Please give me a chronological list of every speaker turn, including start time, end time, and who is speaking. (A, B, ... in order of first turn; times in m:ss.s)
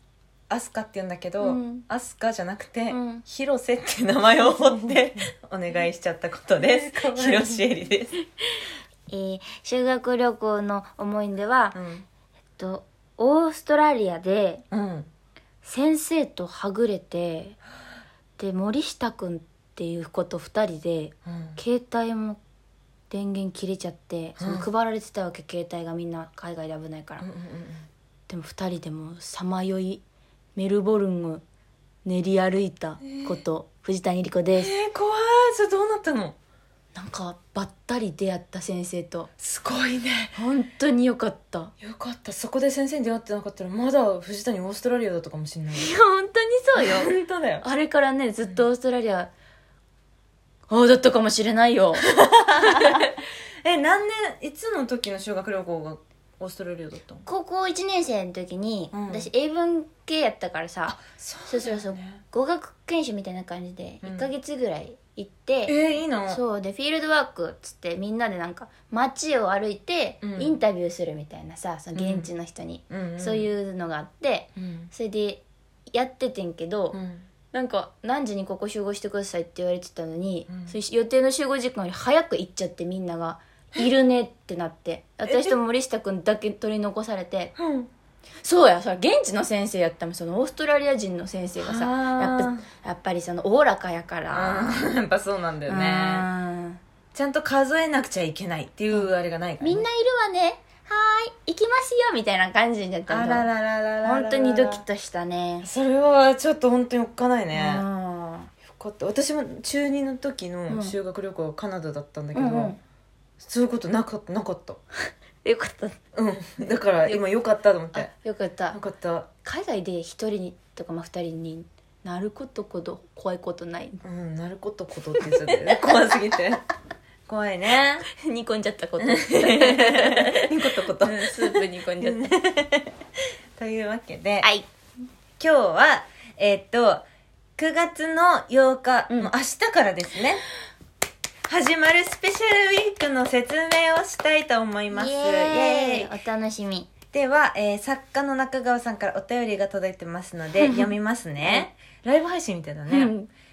0:00.5-0:08.1 A
0:01.4-0:01.8 B
0:02.9-0:03.2 B
0:06.8-0:07.5 B
0:09.1-0:11.8 B
0:11.7-0:12.0 A
0:12.6-0:14.6 B
0:14.7-0:15.1 A
0:15.6-0:17.6 B
0:18.4-0:22.4 B
0:21.2-0:21.6 A
0:23.1-0:27.3 B
0:24.4-0:24.7 A
0:27.2-0:27.8 A
0:28.3-0:30.0 B
0:30.6-0:31.4 B
0:32.0-0:34.7 B
0:33.0-0:33.4 A
0:34.5-0:36.4 A
0:36.9-0:39.3 B
0:39.4-0:40.4 A
0:40.4-0:41.7 B
0:41.8-0:45.9 A
0:45.7-0:49.3 B
0:46.7-0:47.6 A
0:50.7-0:52.0 B
0:52.0-0:57.2 A
0:52.6-0:53.0 B
0:57.2-1:05.8 B
0:58.9-0:59.3 A
1:00.9-1:02.2 A
1:04.0-1:04.3 A
1:05.6-1:06.4 A
1:06.3-1:17.0 B
1:10.2-1:10.6 A
1:11.9-1:12.3 A
1:12.9-1:13.5 A
1:14.6-1:14.9 A
1:16.9-1:17.3 A
1:17.5-1:27.5 B
1:20.5-1:20.8 A
1:25.2-1:25.6 A
1:27.6-1:27.9 A
1:28.4-1:34.9 B
1:31.6-1:32.7 A
1:34.3-1:36.3 A
1:35.6-1:36.8 B
1:37.1-1:39.8 A
1:39.6-1:43.5 B
1:43.1-1:44.8 A
1:44.0-1:45.7 B
1:45.6-1:47.8 A
1:47.5-1:48.5 B
1:48.6-1:52.7 A
1:50.7-1:51.0 B
1:52.3-1:52.8 B
1:53.4-1:54.8 A
1:55.4-1:56.0 B
1:56.1-1:58.1 A
1:57.9-1:58.8 B
1:58.7-1:59.3 A
1:59.4-2:04.0 B
2:04.0-2:06.6 A
2:05.1-2:06.2 B
2:07.3-2:08.0 A
2:08.0-2:12.3 B
2:09.0-2:12.9 A
2:13.6-2:14.5 A
2:14.4-2:14.7 B
2:15.4-2:17.0 A
2:17.6-2:20.4 A
2:21.5-2:26.1 A
2:24.9-2:27.0 B
2:27.0-2:33.1 A
2:30.6-2:31.7 B
2:32.9-2:33.3 B